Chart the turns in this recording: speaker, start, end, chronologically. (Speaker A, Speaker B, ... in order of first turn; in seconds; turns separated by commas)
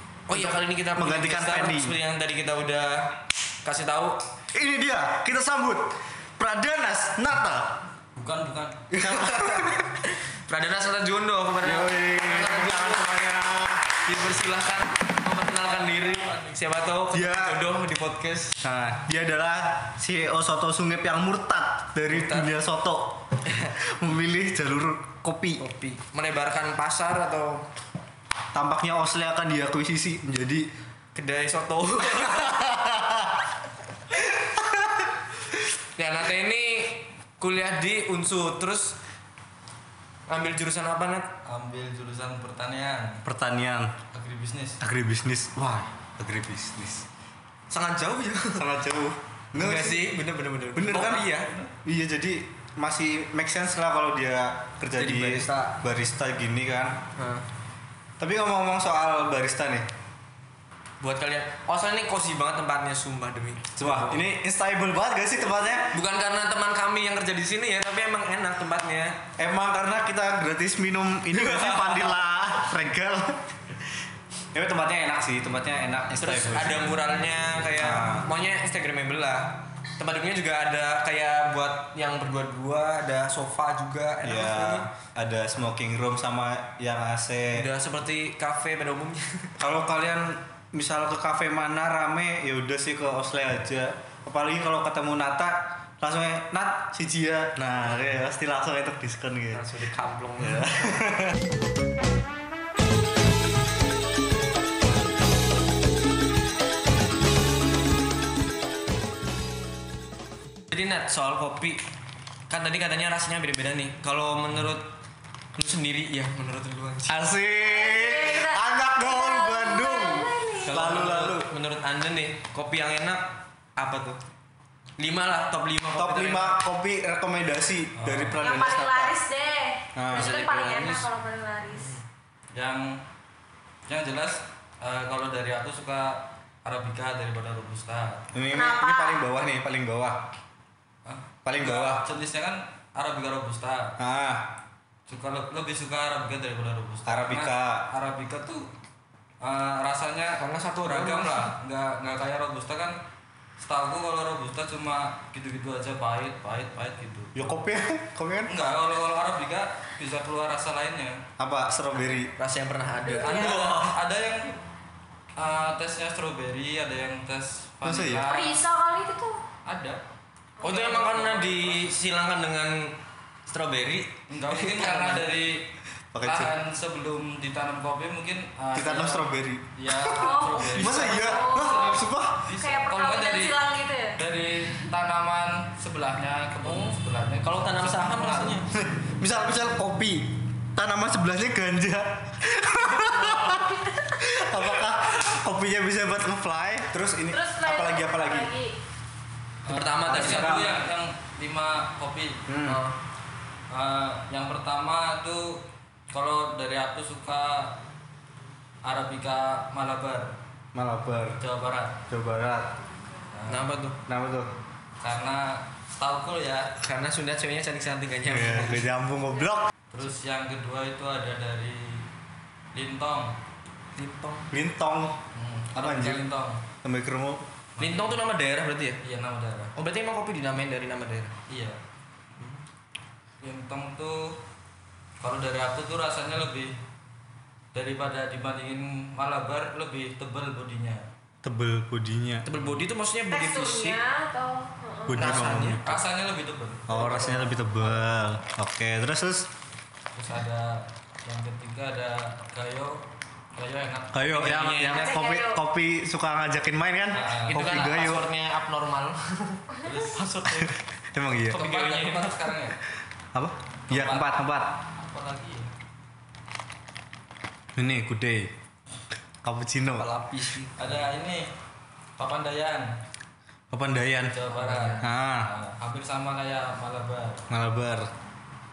Speaker A: 0.3-4.2, Speaker B: 0.3-2.0, Speaker B: 4.5-7.8, Speaker C: 8.2-8.8, Speaker B: 8.9-9.9, Speaker A: 9.0-18.6, Speaker B: 11.6-13.8, Speaker C: 15.3-16.7, Speaker B: 17.1-17.6, Speaker B: 18.6-25.6, Speaker A: 22.1-22.5, Speaker A: 25.6-27.7, Speaker B: 28.5-30.7, Speaker A: 31.1-32.8, Speaker B: 32.8-33.1, Speaker A: 36.0-39.0, Speaker A: 40.3-41.3, Speaker C: 41.5-43.2, Speaker B: 43.2-43.9, Speaker C: 44.1-44.8, Speaker B: 44.8-47.1, Speaker A: 47.7-48.6, Speaker B: 48.5-50.1, Speaker A: 49.5-51.5, Speaker B: 50.8-51.2, Speaker C: 50.9-51.7, Speaker B: 51.8-57.0, Speaker A: 55.0-55.8, Speaker A: 57.2-57.5, Speaker B: 58.2-59.9, Speaker A: 61.0-64.2, Speaker B: 63.8-66.0, Speaker A: 65.9-69.2, Speaker B: 69.4-73.9, Speaker A: 71.3-72.2, Speaker B: 74.5-77.0, Speaker A: 76.2-84.9, Speaker B: 77.8-78.3, Speaker B: 84.2-87.7, Speaker A: 87.5-89.6, Speaker B: 89.6-99.7, Speaker A: 99.5-101.0, Speaker B: 100.4-101.4, Speaker A: 110.7-111.8, Speaker A: 112.5-114.9, Speaker A: 115.5-117.1, Speaker B: 117.1-121.5, Speaker D: 117.6-120.8, Speaker A: 120.6-124.2, Speaker A: 125.0-126.6, Speaker B: 126.0-129.2, Speaker C: 128.0-128.4, Speaker D: 128.4-131.9, Speaker B: 129.9-130.5, Speaker A: 130.1-131.1, Speaker A: 131.7-132.0, Speaker C: 132.5-133.0, Speaker C: 133.9-138.3, Speaker B: 138.3-140.3, Speaker D: 138.5-139.3, Speaker C: 141.1-143.9, Speaker B: 141.4-142.0, Speaker B: 144.0-144.5, Speaker C: 145.1-148.7, Speaker B: 147.1-147.9, Speaker C: 149.4-153.0, Speaker A: 150.4-151.5, Speaker C: 153.6-157.5, Speaker B: 157.3-158.5, Speaker C: 158.5-161.2, Speaker B: 161.4-162.3, Speaker A: 162.3-163.9, Speaker D: 163.0-163.7, Speaker C: 163.2-164.6, Speaker C: 165.4-168.6, Speaker B: 167.8-168.3, Speaker D: 168.2-169.4, Speaker C: 169.7-170.0, Speaker A: 170.6-173.0, Speaker C: 170.6-171.9, Speaker A: 173.5-175.3, Speaker C: 174.3-175.7, Speaker B: 176.1-176.5, Speaker C: 176.2-188.6, Speaker B: 178.8-180.1, Speaker D: 180.0-184.2, Speaker B: 180.7-182.5, Speaker A: 187.4-188.7, Speaker B: 188.8-198.5, Speaker D: 192.9-194.1, Speaker D: 197.2-198.8, Speaker C: 199.7-202.4, Speaker A: 199.7-200.7, Speaker B: 200.1-200.7, Speaker B: 202.5-202.8, Speaker A: 202.6-203.0, Speaker C: 203.7-207.8, Speaker C: 208.8-210.3, Speaker B: 210.7-211.4, Speaker C: 211.4-212.0, Speaker B: 212.1-212.8, Speaker C: 213.3-213.7, Speaker A: 213.5-214.0, Speaker B: 214.1-214.5, Speaker C: 215.0-216.7, Speaker A: 216.8-218.9, Speaker B: 218.3-219.7, Speaker C: 219.9-222.1, Speaker C: 222.7-223.4, Speaker A: 224.0-224.5, Speaker B: 224.5-225.2, Speaker C: 225.3-226.7, Speaker B: 225.7-226.2, Speaker B: 226.8-227.4, Speaker C: 227.8-228.2, Speaker A: 227.8-229.0, Speaker C: 229.0-229.7, Speaker A: 229.8-231.3, Speaker C: 231.5-231.8, Speaker C: 233.4-234.4, Speaker C: 235.2-236.8, Speaker C: 237.7-241.1, Speaker B: 241.4-242.5, Speaker A: 242.5-244.0, Speaker D: 243.3-245.3, Speaker B: 245.1-245.9, Speaker A: 245.1-246.0, Speaker C: 245.3-248.4, Speaker B: 246.9-249.5, Speaker C: 250.2-253.0, Speaker C: 253.6-254.9, Speaker B: 254.1-258.3, Speaker A: 254.4-255.3, Speaker D: 255.0-255.6, Speaker C: 257.1-257.9, Speaker A: 257.5-260.7, Speaker C: 259.8-260.7, Speaker B: 260.6-261.6, Speaker C: 261.5-262.8, Speaker A: 261.5-262.6, Speaker B: 263.3-264.8, Speaker C: 263.9-264.3, Speaker C: 265.0-265.7, Speaker B: 267.8-268.5, Speaker B: 269.4-270.1, Speaker A: 270.0-271.1, Speaker C: 270.8-271.5, Speaker C: 272.2-272.9, Speaker B: 273.7-274.3, Speaker C: 274.3-277.5, Speaker A: 274.5-275.1, Speaker B: 275.0-275.5, Speaker B: 277.5-278.1